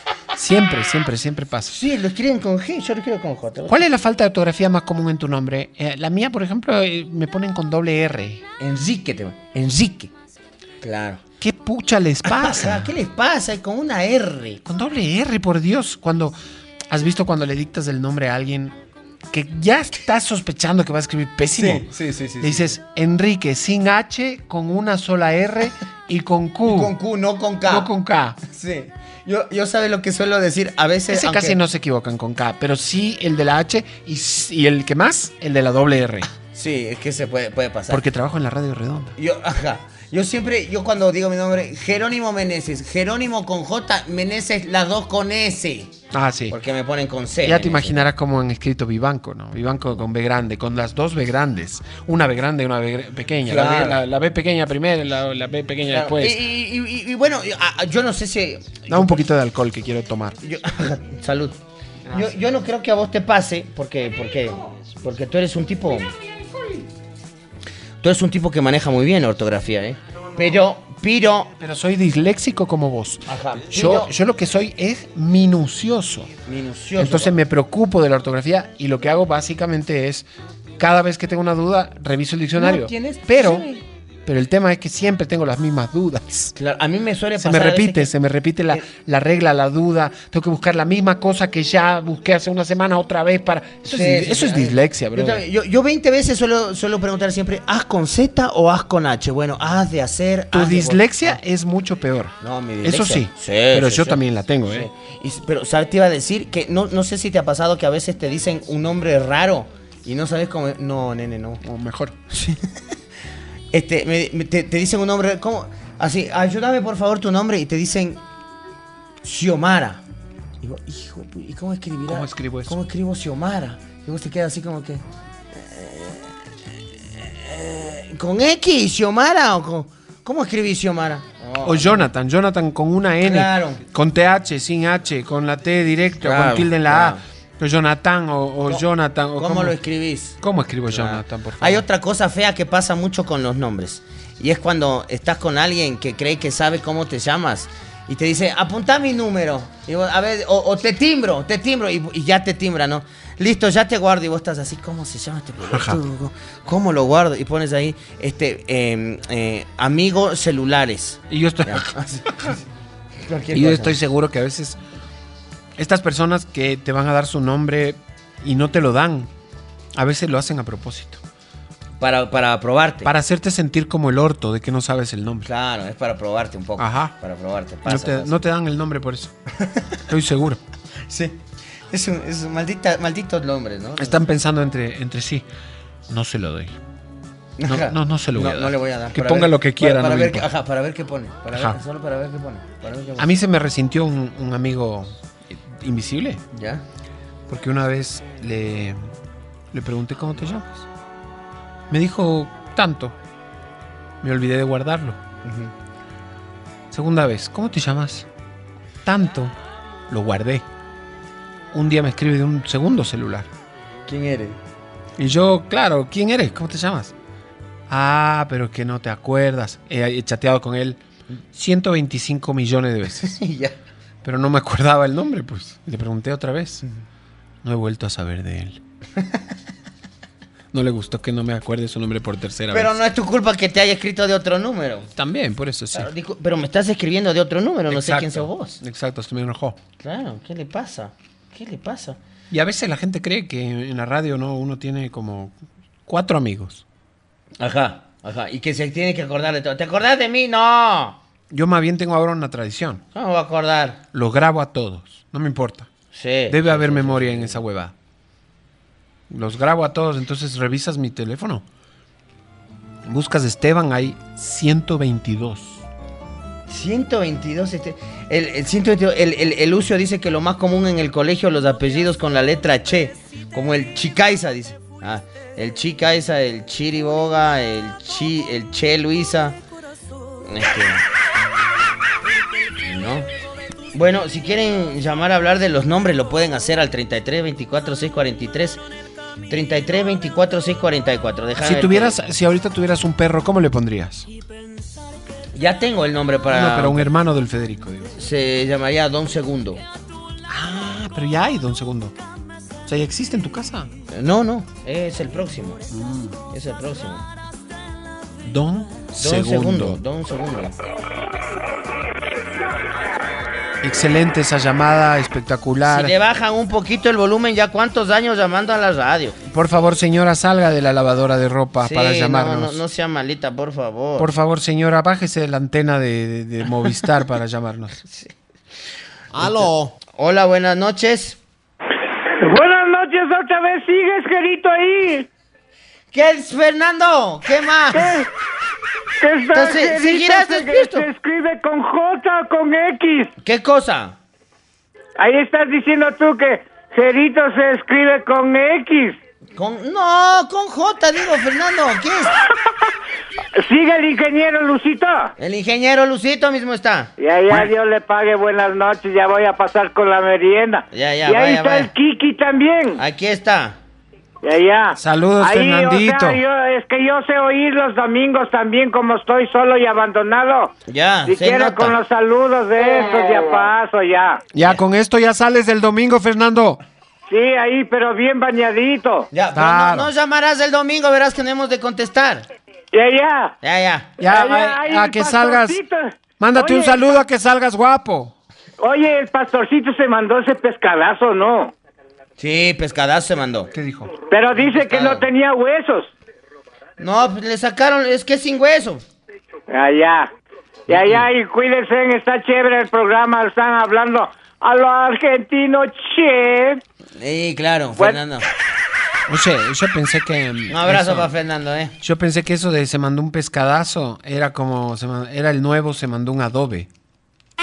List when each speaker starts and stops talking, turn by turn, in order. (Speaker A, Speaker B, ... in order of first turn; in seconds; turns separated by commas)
Speaker A: 0.3-1.8, Speaker B: 1.7-3.9, Speaker A: 3.7-8.4, Speaker B: 8.6-10.1, Speaker B: 10.8-11.2, Speaker A: 11.4-12.9, Speaker B: 12.2-14.6, Speaker A: 14.7-16.4, Speaker A: 16.9-18.8, Speaker A: 19.3-26.9, Speaker B: 21.6-22.8, Speaker B: 26.7-27.9, Speaker A: 27.6-28.4, Speaker B: 28.5-31.6, Speaker A: 31.1-36.3, Speaker B: 36.5-38.0, Speaker A: 37.9-39.1, Speaker B: 39.2-45.9, Speaker A: 46.1-46.6, Speaker B: 46.5-48.1, Speaker A: 47.4-56.4, Speaker B: 53.5-54.0, Speaker B: 55.9-59.3, Speaker A: 58.9-60.4, Speaker B: 60.4-61.6, Speaker B: 62.1-66.1, Speaker A: 66.4-66.8, Speaker B: 68.0-71.5, Speaker A: 71.6-76.3, Speaker B: 73.3-74.1, Speaker B: 76.5-77.3, Speaker A: 77.0-80.3, Speaker A: 80.8-83.7, Speaker B: 82.6-83.8, Speaker A: 84.3-86.5, Speaker B: 86.5-88.1, Speaker A: 87.4-95.4, Speaker B: 93.8-101.4, Speaker A: 100.5-104.9, Speaker B: 102.4-111.6, Speaker A: 111.6-112.2, Speaker B: 112.3-112.6, Speaker B: 113.7-118.2, Speaker B: 119.2-120.0, Speaker B: 120.6-126.3, Speaker A: 122.1-122.8, Speaker B: 127.1-132.1, Speaker A: 131.6-139.8, Speaker B: 133.2-133.8, Speaker B: 136.2-137.2, Speaker B: 139.4-162.6, Speaker A: 140.4-141.9, Speaker A: 155.7-156.0, Speaker A: 161.3-162.5, Speaker B: 163.2-164.0, Speaker A: 163.5-164.8, Speaker A: 165.8-169.3, Speaker A: 169.9-171.2, Speaker B: 172.0-173.1, Speaker A: 173.0-175.5, Speaker B: 175.4-178.4, Speaker A: 176.8-177.2, Speaker A: 177.9-179.3, Speaker B: 179.6-179.9, Speaker A: 180.1-180.6, Speaker B: 181.1-181.4, Speaker B: 181.9-184.2, Speaker A: 184.0-185.5, Speaker A: 186.1-186.8, Speaker B: 187.6-193.3, Speaker A: 187.6-190.5, Speaker A: 191.5-191.8, Speaker A: 193.2-196.4, Speaker B: 196.5-196.8, Speaker A: 197.5-199.1, Speaker A: 199.7-200.8, Speaker A: 201.9-203.2, Speaker A: 204.2-205.2, Speaker B: 205.4-205.7, Speaker A: 206.9-208.3, Speaker A: 209.1-209.6, Speaker A: 210.1-210.7, Speaker A: 211.7-213.5, Speaker B: 214.1-214.6, Speaker A: 215.2-217.1, Speaker A: 217.9-221.0, Speaker A: 221.5-223.4, Speaker B: 223.2-223.8, Speaker A: 224.2-226.8, Speaker A: 227.6-228.8, Speaker A: 230.7-233.0, Speaker B: 232.7-235.1, Speaker A: 235.2-236.1, Speaker B: 235.9-238.8, Speaker A: 237.9-239.8, Speaker B: 240.0-242.2, Speaker A: 242.5-246.8, Speaker B: 247.6-251.2, Speaker A: 251.5-253.0, Speaker B: 253.1-254.0, Speaker A: 254.1-255.9, Speaker B: 256.1-257.6, Speaker A: 256.5-257.9, Speaker A: 259.3-261.6, Speaker A: 263.1-265.9, Speaker B: 266.7-279.6, Speaker B: 280.5-281.0, Speaker B: 282.8-283.3, Speaker B: 283.9-288.8, Speaker B: 289.5-292.2, Speaker A: 291.6-294.3, Speaker B: 295.6-297.1, Speaker A: 296.5-298.1, Speaker B: 298.2-299.8, Speaker A: 300.5-302.1, Speaker A: 302.9-303.9, Speaker B: 304.1-305.9, Speaker A: 305.9-306.4, Speaker B: 306.5-307.2, Speaker A: 308.4-310.0, Speaker B: 309.2-310.8, Speaker A: 313.8-316.1, Speaker B: 315.9-319.4, Speaker A: 319.5-322.8, Speaker B: 321.8-324.3, Speaker A: 324.2-328.0, Speaker B: 329.3-331.4, Speaker A: 329.4-329.7, Speaker C: 332.4-335.3, Speaker B: 336.1-338.2, Speaker C: 337.9-338.3, Speaker C: 339.2-343.3, Speaker B: 339.5-341.1, Speaker B: 343.4-344.2, Speaker C: 345.2-349.2, Speaker B: 349.6-352.3, Speaker C: 353.6-355.3, Speaker B: 355.4-357.1, Speaker C: 357.2-363.0, Speaker B: 360.9-361.9, Speaker B: 363.0-363.8, Speaker C: 364.4-370.7, Speaker A: 364.9-366.4, Speaker B: 370.9-372.0, Speaker C: 371.3-374.4, Speaker A: 374.5-376.8, Speaker C: 377.3-379.3, Speaker B: 379.3-382.5, Speaker A: 379.5-380.1, Speaker C: 382.9-383.6, Speaker B: 383.6-384.1, Speaker A: 384.2-385.8, Speaker C: 384.2-387.2, Speaker A: 386.4-388.4, Speaker C: 388.8-391.7, Speaker B: 392.4-393.7, Speaker A: 393.7-394.1, Speaker C: 394.3-396.1, Speaker B: 394.5-395.3, Speaker B: 397.0-399.0, Speaker C: 399.7-400.3, Speaker B: 400.9-401.3, Speaker C: 400.9-406.8, Speaker B: 407.2-408.5, Speaker A: 409.3-411.3, Speaker B: 410.7-411.9, Speaker A: 412.0-416.9